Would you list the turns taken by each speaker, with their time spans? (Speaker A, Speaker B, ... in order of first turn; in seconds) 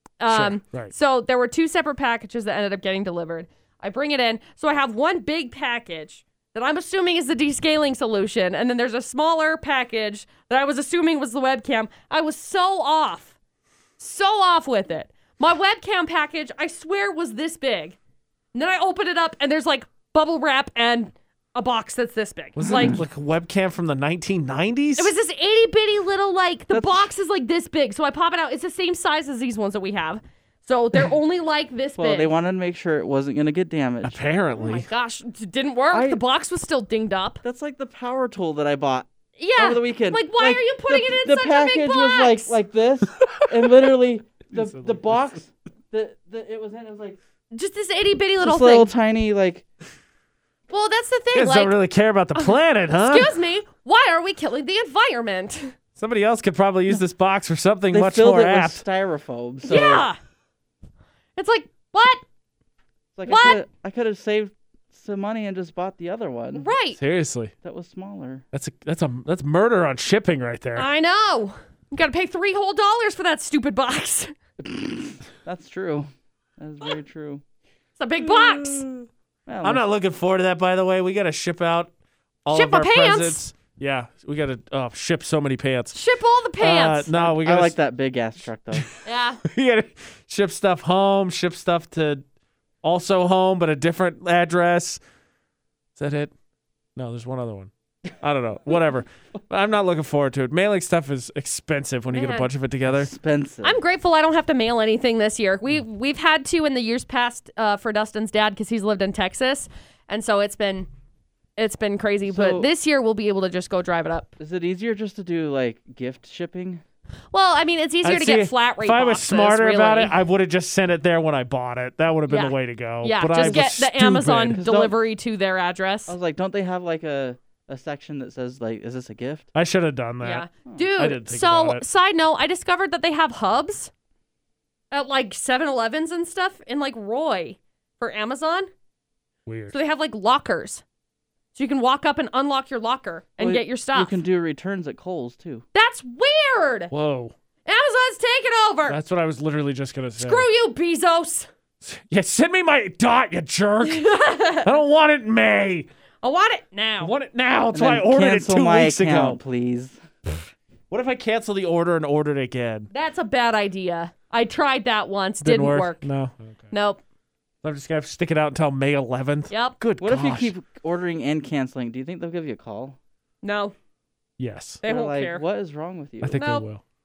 Speaker A: 0.2-13.3, 14.0-17.9, 18.5-23.0, 25.0-32.3, 34.5-37.4, 39.4-42.6, 47.5-48.9, 50.7-51.7, 52.4-55.7, 59.6-60.2, 61.4-62.2, 63.2-63.6, 66.6-67.0, 70.8-74.3, 78.0-78.8, 82.5-83.4, 85.9-87.1, 89.0-89.4, 102.1-102.5, 103.6-110.9, 111.6-114.3, 117.3-120.2, 122.3-126.1, 130.2-133.9, 134.9-138.7, 139.7-140.8, 141.5-144.2, 145.7-146.9, 147.7-149.0, 150.2-151.5, 153.8-154.8, 156.2-157.1, 162.9-166.1, 166.7-167.0, 169.5-169.8, 173.4-173.7, 174.8-175.4, 176.3-176.7
Speaker B: 0.3-0.9, 22.6-25.1, 34.0-34.9, 44.5-45.4, 51.3-53.3, 56.0-58.8, 67.0-67.5, 68.5-70.9, 78.2-79.0, 79.6-81.9, 82.4-86.0, 86.6-87.8, 89.4-92.2, 92.8-95.0, 96.0-96.3, 97.0-103.1, 118.0-124.6, 129.5-131.8, 139.4-139.7, 146.9-147.3, 148.8-150.5, 151.8-155.9, 157.0-159.4, 160.9-162.9, 165.4-166.7, 167.6-170.5, 174.4-174.8, 176.2-176.8
Speaker C: 22.6-23.0, 26.7-27.1, 32.0-34.2, 35.9-36.2, 37.4-47.2, 48.4-49.6, 57.9-60.1, 63.1-66.7, 67.6-68.4, 74.6-77.4, 79.5-79.8, 87.2-88.9, 102.8-103.8, 112.3-112.7, 114.4-116.8, 124.5-125.0, 126.1-129.5, 143.4-145.6, 157.7-160.0, 170.0-173.0, 174.8-176.4